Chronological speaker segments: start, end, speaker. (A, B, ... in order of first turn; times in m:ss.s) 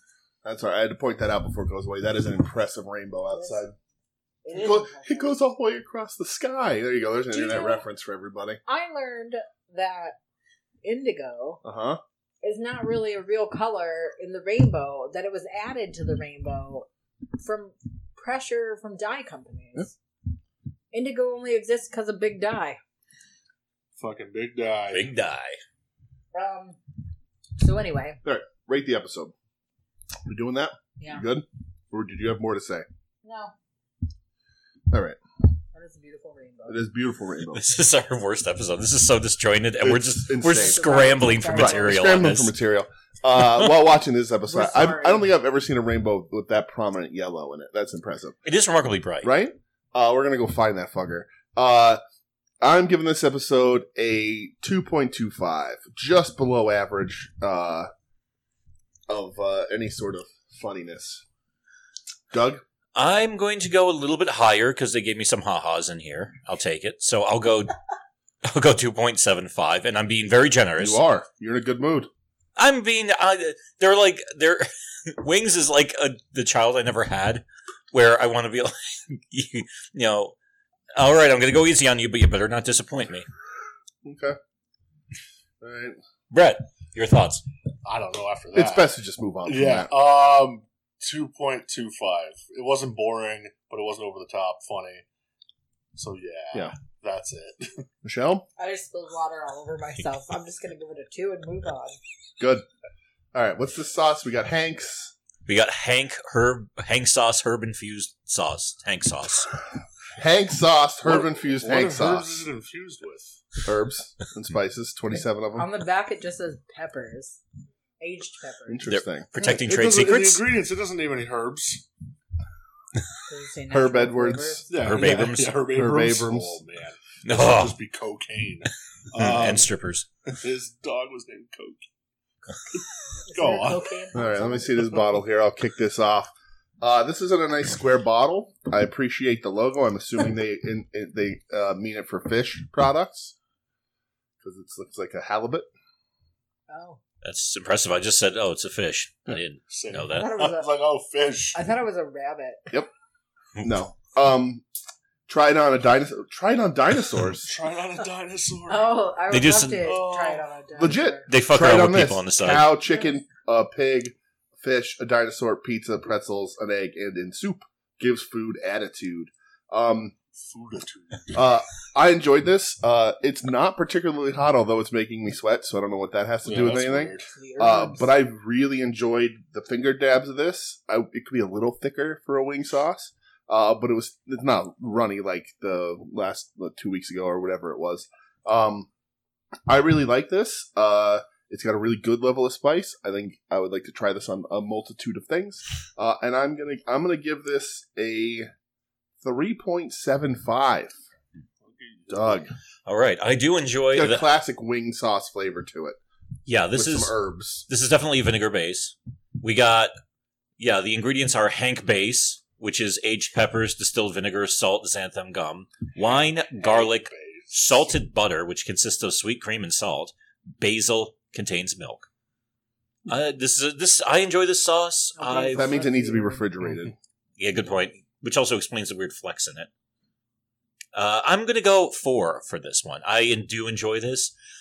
0:00.4-0:03.7 A
0:03.3-0:03.6 B
0:04.4-0:05.4 B
0:04.5-0:08.6 A
0:07.3-0:07.8 B
0:08.7-0:10.2 B
0:10.8-0:11.6 B
0:11.6-0:12.0 A
0:12.4-0:20.0 B
0:20.9-0:22.8 B
0:24.0-0:25.1 C
0:24.9-0:25.6 D
0:26.3-0:26.8 B
0:27.6-0:28.2 B
0:28.2-0:29.3 A
0:30.3-0:32.9 A
0:31.0-0:31.2 B
0:33.2-0:33.5 B
0:34.9-0:35.2 A
0:35.7-0:36.8 B
0:36.7-0:37.6 A
0:37.5-0:42.5 D
0:39.8-0:48.4 A
0:40.5-0:42.2 B
0:44.5-0:45.2 B
0:48.4-0:49.3 D
0:49.2-0:52.0 A
0:52.6-0:57.9 A
0:59.1-1:01.2 A
1:02.3-1:02.6 A
1:03.0-1:07.8 D
1:08.4-1:11.0 D
1:10.8-1:12.1 A
1:12.6-1:20.3 D
1:21.0-1:23.3 D
1:24.0-1:24.4 A
1:25.6-1:26.0 A
1:26.3-1:27.4 D
1:27.8-1:28.9 C
1:28.5-1:29.9 A
1:29.5-1:35.0 C
1:36.0-1:37.9 C
1:38.0-1:38.4 A
1:38.6-1:42.0 B
1:42.4-1:42.6 A
1:43.3-1:45.1 A
1:45.5-1:49.5 D
1:50.2-1:52.4 A
1:51.1-1:53.5 C
1:53.6-1:55.7 A
1:55.6-1:57.4 B
1:58.0-1:58.8 B
1:58.7-1:59.3 A
1:58.9-2:00.4 D
1:59.4-2:01.9 C
2:03.3-2:04.6 B
2:03.7-2:06.6 A
2:04.7-2:09.7 C
2:04.8-2:05.6 D
2:07.2-2:07.8 D
2:09.2-2:10.1 D
2:10.3-2:11.9 C
2:12.7-2:13.9 C
2:13.2-2:14.7 B
2:14.1-2:23.4 A
2:24.4-2:25.7 A
2:26.7-2:27.0 B
2:27.2-2:30.3 D
2:29.7-2:31.7 C
2:30.1-2:30.7 B
2:31.5-2:32.7 B
2:33.6-2:34.6 A
2:35.3-2:37.5 A
2:37.4-2:38.9 C
2:38.7-2:41.3 B
2:39.3-2:39.9 D
2:39.8-2:40.4 C
2:40.8-2:50.2 A
2:41.3-2:42.7 D
2:50.3-2:51.4 C
2:51.3-3:08.9 A
2:56.4-2:57.3 C
2:57.3-2:58.1 B
3:09.7-3:18.5 A
3:19.2-3:21.0 A
3:21.6-3:22.5 C
3:22.1-3:22.5 A
3:22.9-3:24.3 D
3:23.9-3:26.0 A
3:26.5-3:27.2 D
3:26.7-3:27.6 A
3:27.7-3:29.9 D
3:30.6-3:42.1 D
3:36.0-3:38.0 C
3:43.1-3:45.8 D
3:45.2-3:46.5 B
3:45.5-3:47.0 A
3:47.4-3:49.7 D
3:50.9-3:54.3 D